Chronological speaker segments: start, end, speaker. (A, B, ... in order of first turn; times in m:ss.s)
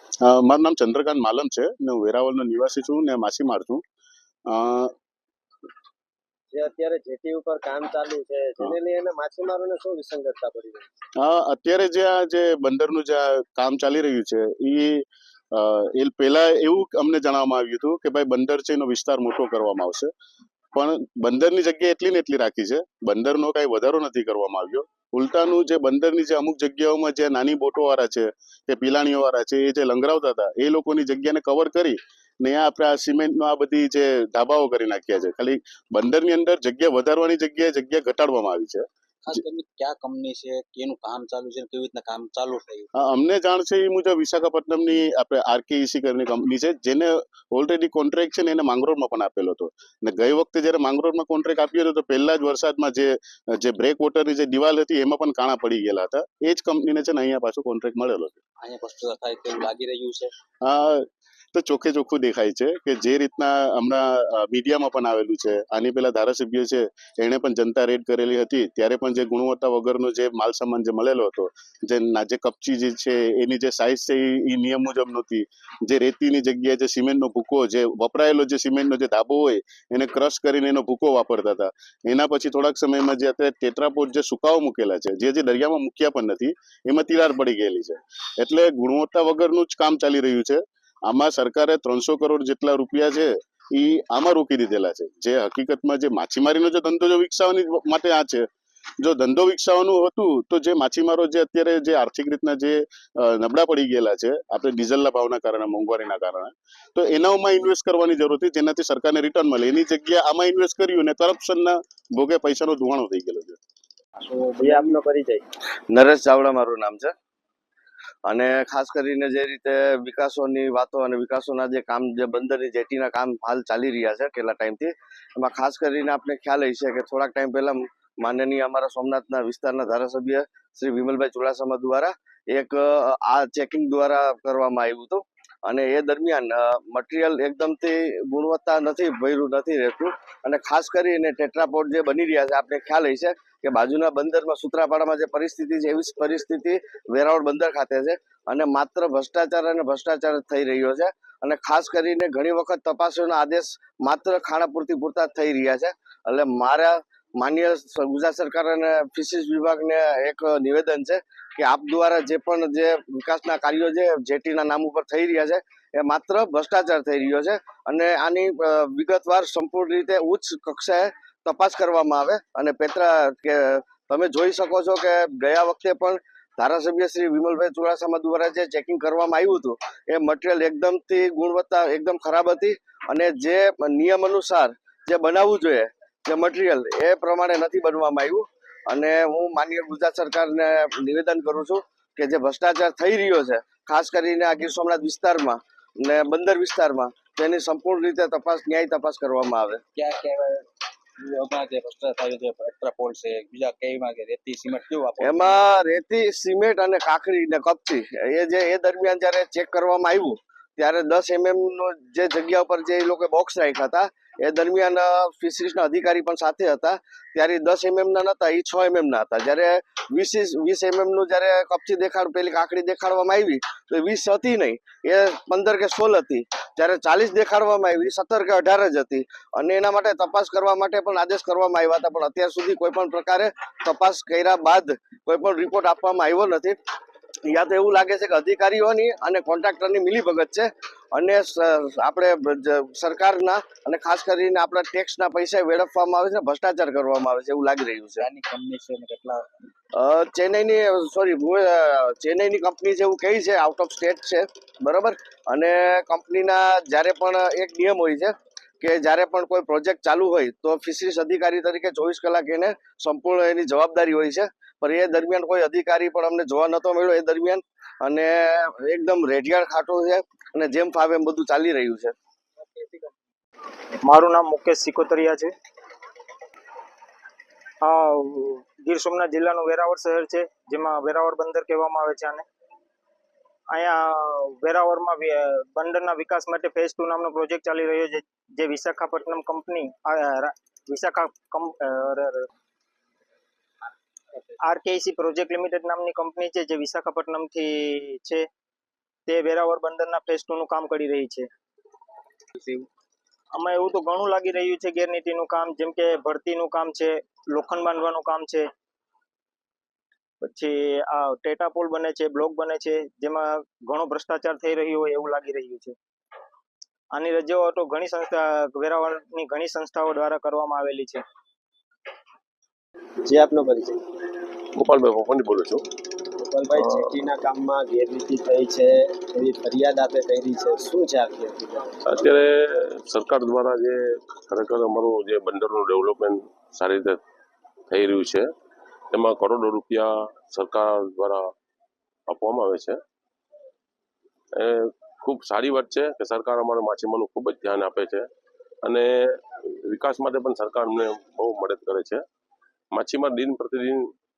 0:00.2-0:03.8 A
0:04.5-0:04.9 A
0:06.5-0:10.9 B
0:11.2-0:20.1 A
0:20.7-0:38.8 A
0:39.2-0:42.9 C
0:43.0-0:58.4 A
0:58.6-1:00.3 C
1:00.6-1:38.5 A
1:39.0-1:53.6 A
1:54.3-1:54.8 C
1:54.6-1:55.4 B
1:55.9-1:57.1 D
1:58.2-3:19.8 D
3:19.9-3:20.7 C
3:21.2-3:25.6 C
3:25.2-3:56.8 D
3:57.5-4:08.2 D
4:08.2-4:09.4 C
4:10.0-4:32.1 D
4:32.6-4:33.1 B
4:34.0-4:35.5 E
4:37.8-4:42.4 E
4:43.7-4:52.5 E
4:54.6-4:58.4 E
4:59.3-5:01.5 E
5:03.6-5:08.7 E
5:10.4-5:15.9 E
5:17.1-5:21.2 E
5:23.2-5:24.0 B
5:24.8-5:25.8 F
5:26.4-5:32.0 B
5:26.7-5:27.0 F
5:32.0-5:37.2 F
5:37.9-5:38.5 F
5:39.1-5:41.4 F
5:42.3-5:43.0 F
5:44.5-5:48.3 F
5:48.8-5:52.2 F
5:52.9-5:54.1 F